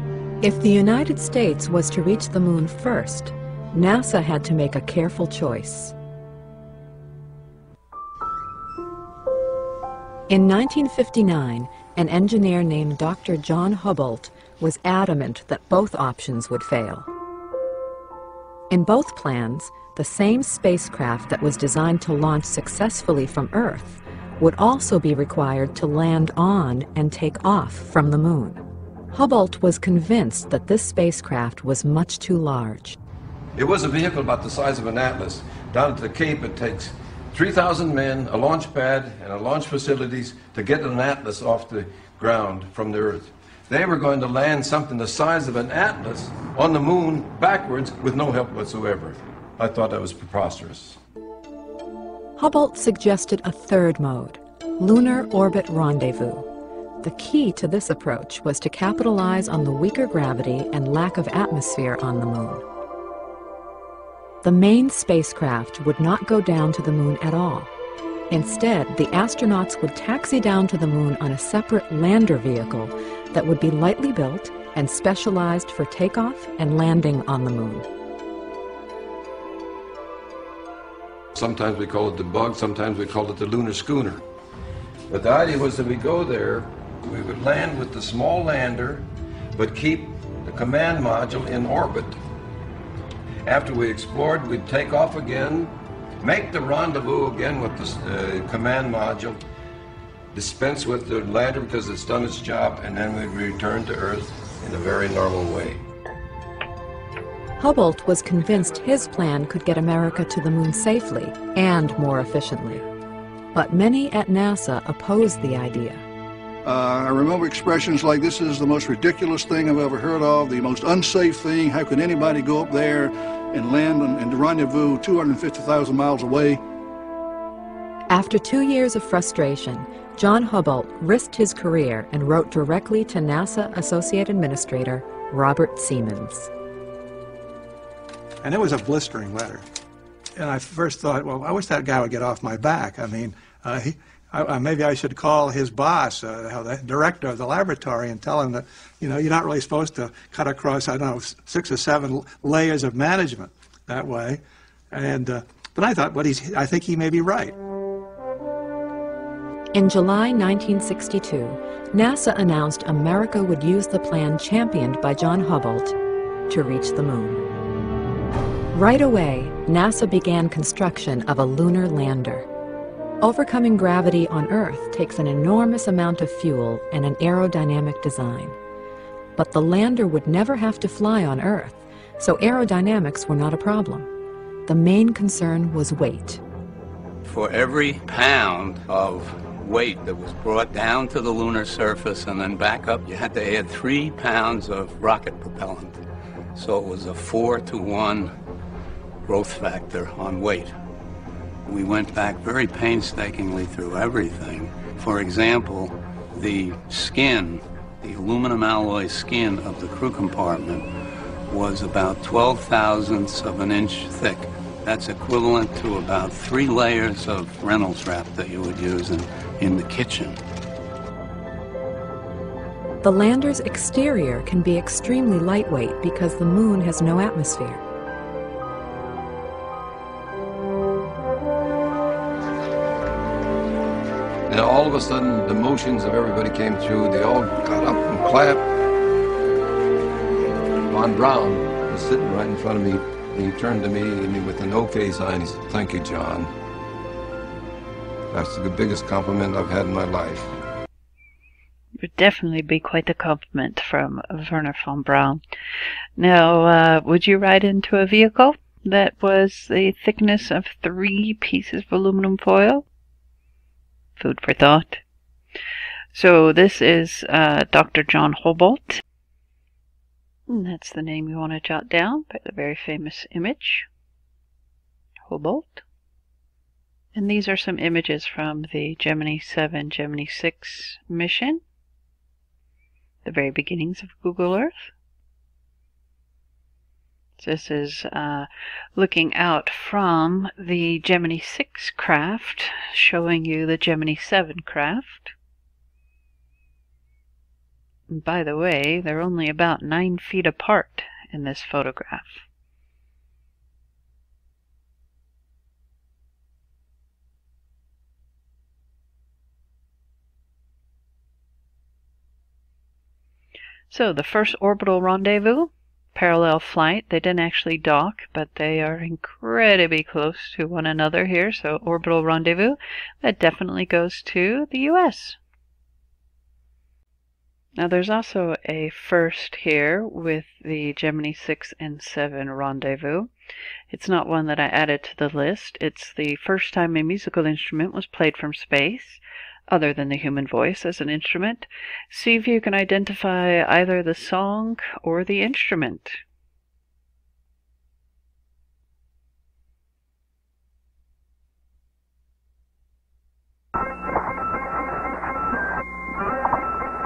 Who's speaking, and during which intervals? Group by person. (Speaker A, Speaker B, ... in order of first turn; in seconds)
Speaker A: 0.4-5.9, 10.3-17.1, 18.7-33.0, 52.4-56.5, 57.0-62.6, 64.4-67.7, 68.3-77.9, 107.6-112.8, 113.5-116.0, 128.1-136.5, 159.7-165.9, 166.5-167.4, 168.7-172.5, 173.2-178.6, 179.3-184.1, 184.7-186.4, 223.0-227.8
Speaker B: 33.5-51.0, 81.3-84.2, 85.1-92.2, 93.4-99.4, 100.3-105.8, 234.5-238.6, 240.9-246.5, 248.3-250.5
Speaker C: 116.6-126.6
Speaker D: 138.4-139.6, 140.4-157.6
Speaker E: 187.2-196.0, 196.5-198.3, 199.2-200.7, 201.6-210.9, 211.5-220.4
Speaker F: 252.0-255.4, 256.2-262.8, 264.2-265.0, 266.1-269.0, 270.5-273.9, 275.3-275.8, 277.1-281.6, 283.2-284.9, 287.4-295.3, 298.1-302.4, 313.9-325.4, 327.8-333.3, 333.9-346.2